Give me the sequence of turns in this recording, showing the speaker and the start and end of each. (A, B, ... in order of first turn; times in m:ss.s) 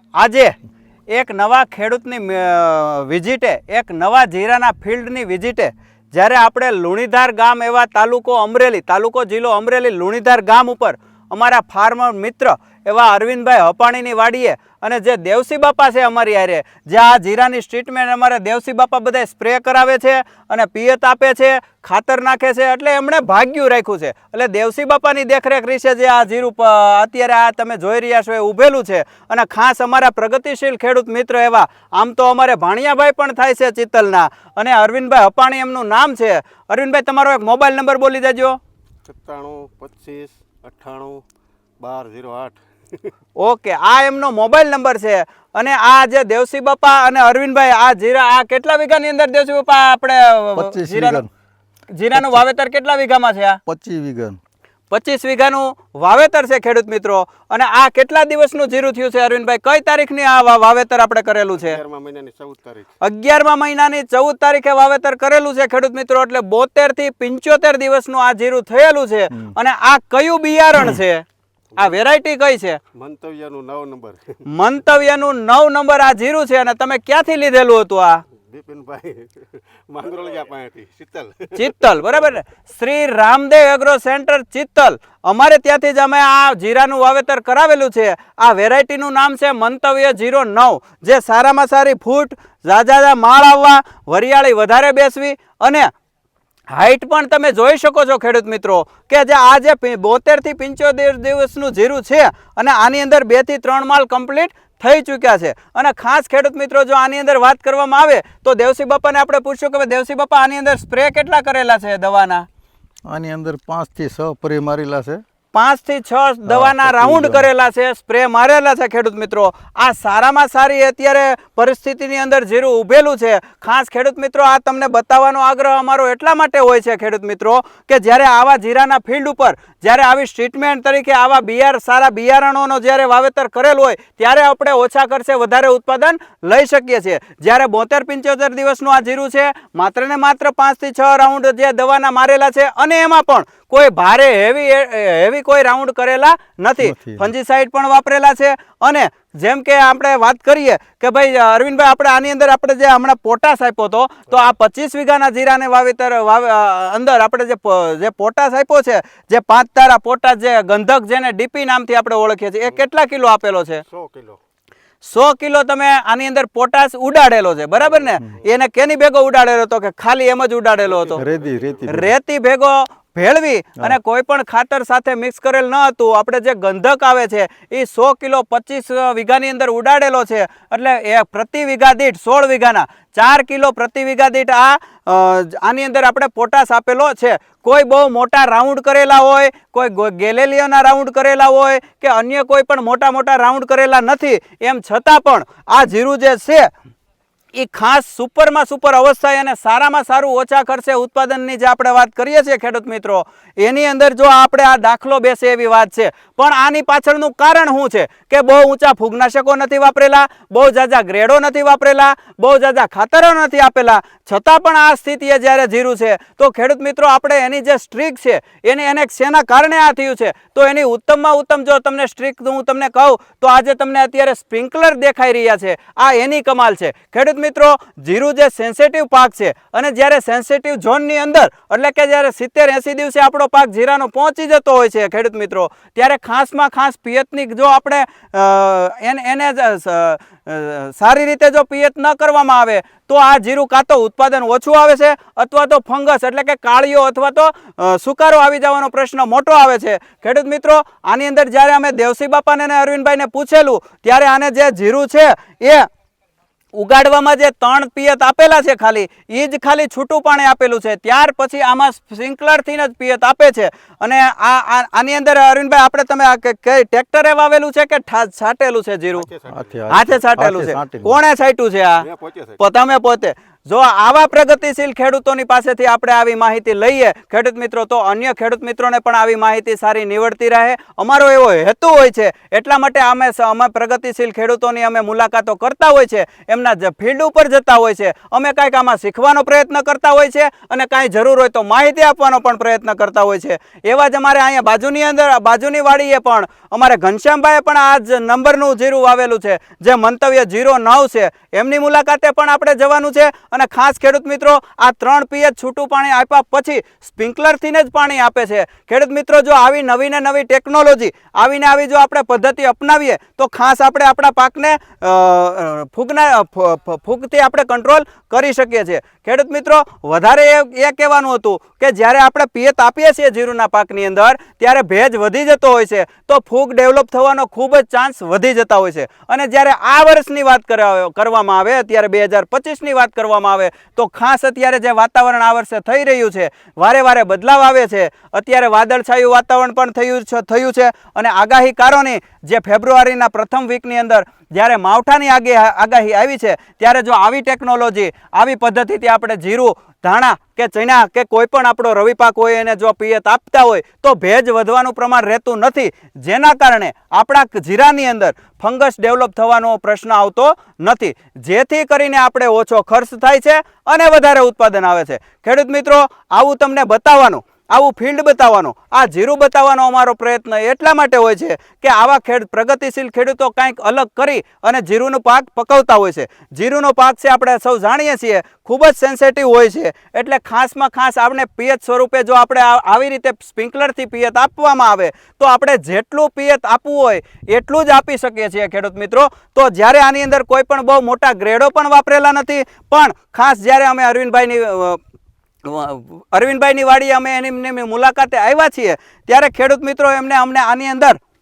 0:00.2-0:00.5 A
0:01.1-0:38.6 A
0:39.0-0:41.2 B
0:41.8-0:43.1 B
0:43.4-0:51.2 A
0:50.6-0:51.3 C
0:51.9-0:53.6 A
0:53.6-0:54.4 C
0:54.9-1:01.8 A
1:01.5-1:02.9 B
1:03.0-1:11.2 A
1:11.8-1:12.8 A
1:12.9-1:14.4 B
1:14.4-1:18.2 A
1:18.5-1:21.7 B
1:21.6-1:35.9 A
1:36.7-1:52.4 A
1:53.0-1:55.2 C
1:55.5-2:43.8 A
1:56.4-1:57.5 C
2:26.8-2:27.2 C
2:43.8-2:44.4 B
2:45.0-2:51.2 A
2:47.8-2:48.5 B
2:50.8-2:52.0 B
2:51.2-2:52.1 C
2:51.9-3:16.7 A
3:17.5-4:15.9 A
4:16.7-4:29.3 A
4:29.2-4:30.0 B
4:29.5-4:31.2 C
4:29.9-4:32.0 A
4:32.0-4:32.6 B
4:32.6-6:35.0 A
6:35.6-6:41.2 A